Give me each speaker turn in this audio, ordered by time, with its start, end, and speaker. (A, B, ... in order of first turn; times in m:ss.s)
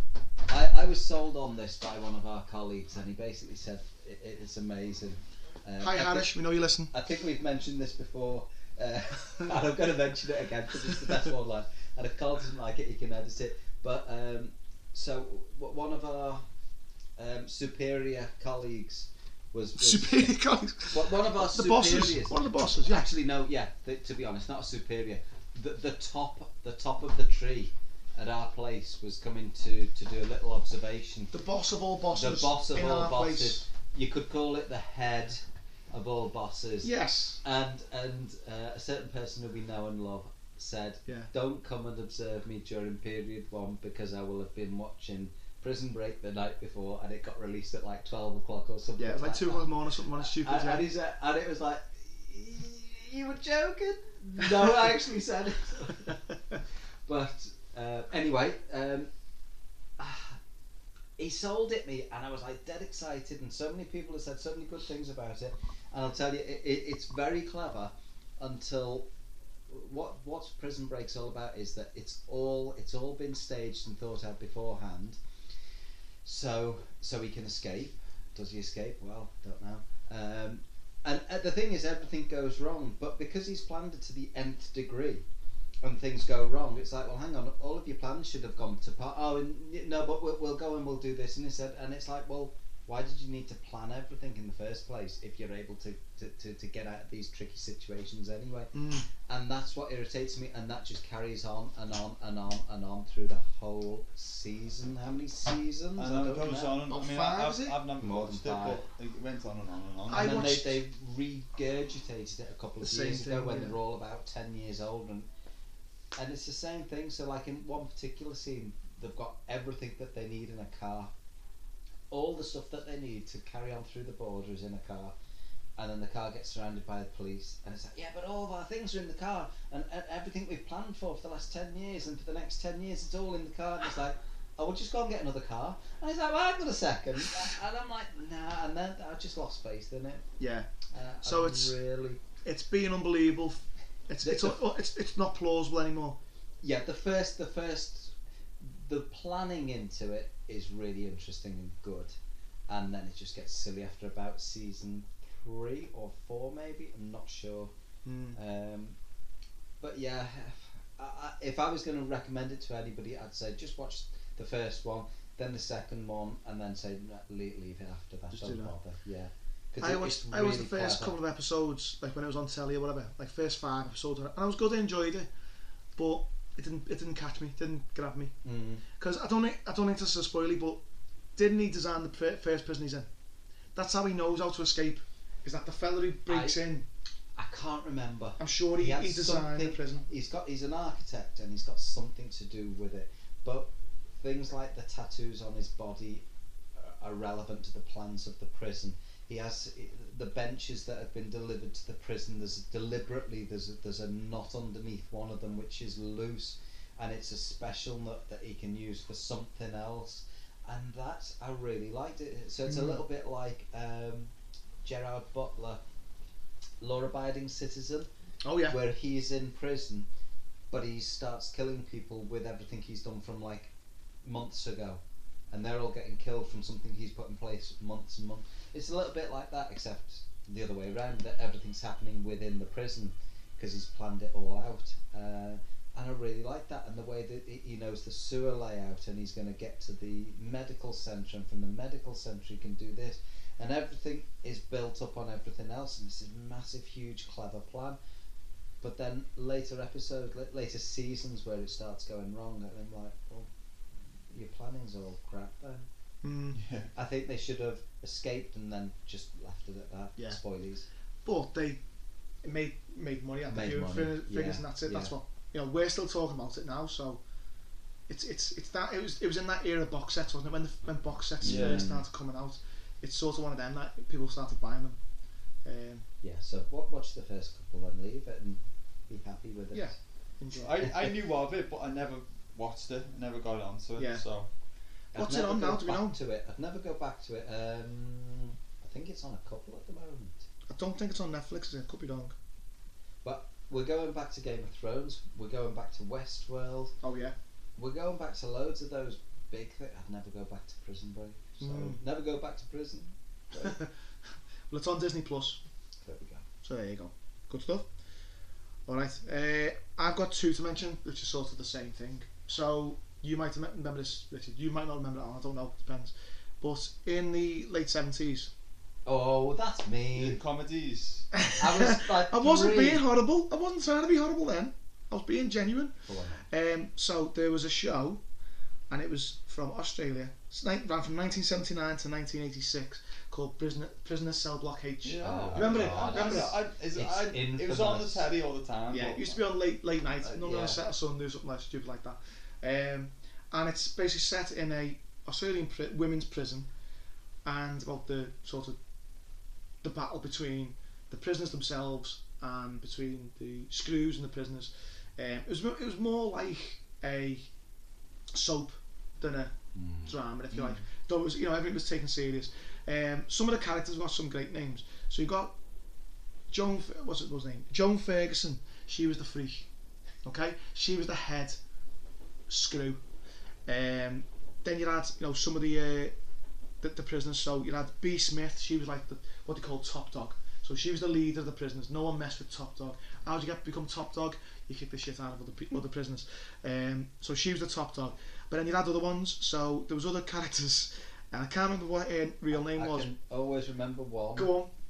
0:00.5-0:06.4 A
0:05.8-0:06.9 B
0:06.9-0:16.4 A
0:17.2-0:20.3 A
0:19.8-0:23.1 B
0:20.9-0:31.3 A
0:31.3-0:33.7 B
0:32.1-0:56.3 A
0:36.8-0:37.4 B
0:41.0-0:41.3 B
0:49.0-0:50.9 B
0:57.0-0:59.1 A
1:00.0-1:00.4 A
1:01.2-1:09.1 A
1:09.7-1:15.2 A
1:16.2-1:25.2 A
1:25.8-1:46.8 A
1:38.7-1:39.1 B
1:46.0-1:50.4 C
1:46.9-1:47.8 B
1:48.0-1:48.8 A
1:50.1-1:50.8 B
1:50.1-1:55.3 A
1:52.8-1:53.8 B
1:56.2-2:01.1 A
2:02.1-2:05.1 A
2:05.8-2:20.2 A
2:20.4-2:20.7 B
2:20.9-2:22.2 A
2:21.2-2:21.8 B
2:22.4-2:26.2 B
2:24.2-2:24.6 A
2:26.6-2:32.2 A
2:32.7-2:37.7 A
2:38.0-2:38.4 B
2:38.3-2:39.0 A
2:39.8-2:51.1 A
2:48.3-2:48.7 B
2:49.8-2:55.3 B
2:56.0-2:58.3 B
2:58.4-2:58.8 A
2:59.0-3:00.8 B
3:01.4-3:03.1 B
3:03.7-3:06.9 B
3:06.3-3:06.6 A
3:07.4-3:16.2 A
3:08.4-3:10.1 B
3:16.7-3:34.3 A
3:32.6-3:33.0 B
3:34.8-3:35.8 A
3:36.8-3:38.1 A
3:38.4-3:38.8 B
3:38.6-3:40.1 A
3:40.7-3:43.7 A
3:44.2-4:08.0 A
4:08.8-4:13.5 A
4:14.3-4:15.9 A
4:16.2-4:16.6 B
4:16.5-4:16.9 C
4:16.9-4:20.9 A
4:21.2-4:21.8 B
4:22.4-4:27.2 B
4:23.5-4:25.1 A
4:28.1-4:35.0 B
4:31.4-4:32.0 A
4:31.4-4:31.9 C
4:35.6-4:36.0 B
4:36.2-4:39.9 A
4:39.7-4:41.0 B
4:40.5-4:44.5 C
4:44.0-4:44.2 B
4:45.1-4:50.4 A
4:45.2-4:46.2 B
4:50.7-4:52.3 B
4:53.2-4:57.0 A
4:57.0-4:57.4 B
4:57.8-5:03.8 A
5:01.6-5:02.0 B
5:03.6-5:03.9 B
5:04.7-5:05.6 B
5:06.0-5:06.4 A
5:06.6-5:07.9 B
5:08.8-5:18.5 B
5:19.0-5:20.4 A
5:20.2-5:21.3 C
5:21.3-5:28.2 B
5:21.6-5:23.0 A
5:26.0-5:26.4 A
5:28.9-5:36.5 B
5:35.0-5:39.4 C
5:35.2-5:38.3 A
5:38.9-5:46.7 B
5:40.2-5:40.8 A
5:47.4-5:48.8 B
5:49.8-5:57.5 B
5:58.3-6:05.5 B
5:59.7-6:00.8 A
6:06.5-6:09.7 B
6:10.2-6:11.6 B
6:12.5-6:13.0 B
6:13.6-6:16.1 B
6:16.8-6:33.1 B
6:32.5-6:34.5 A
6:34.4-6:34.7 B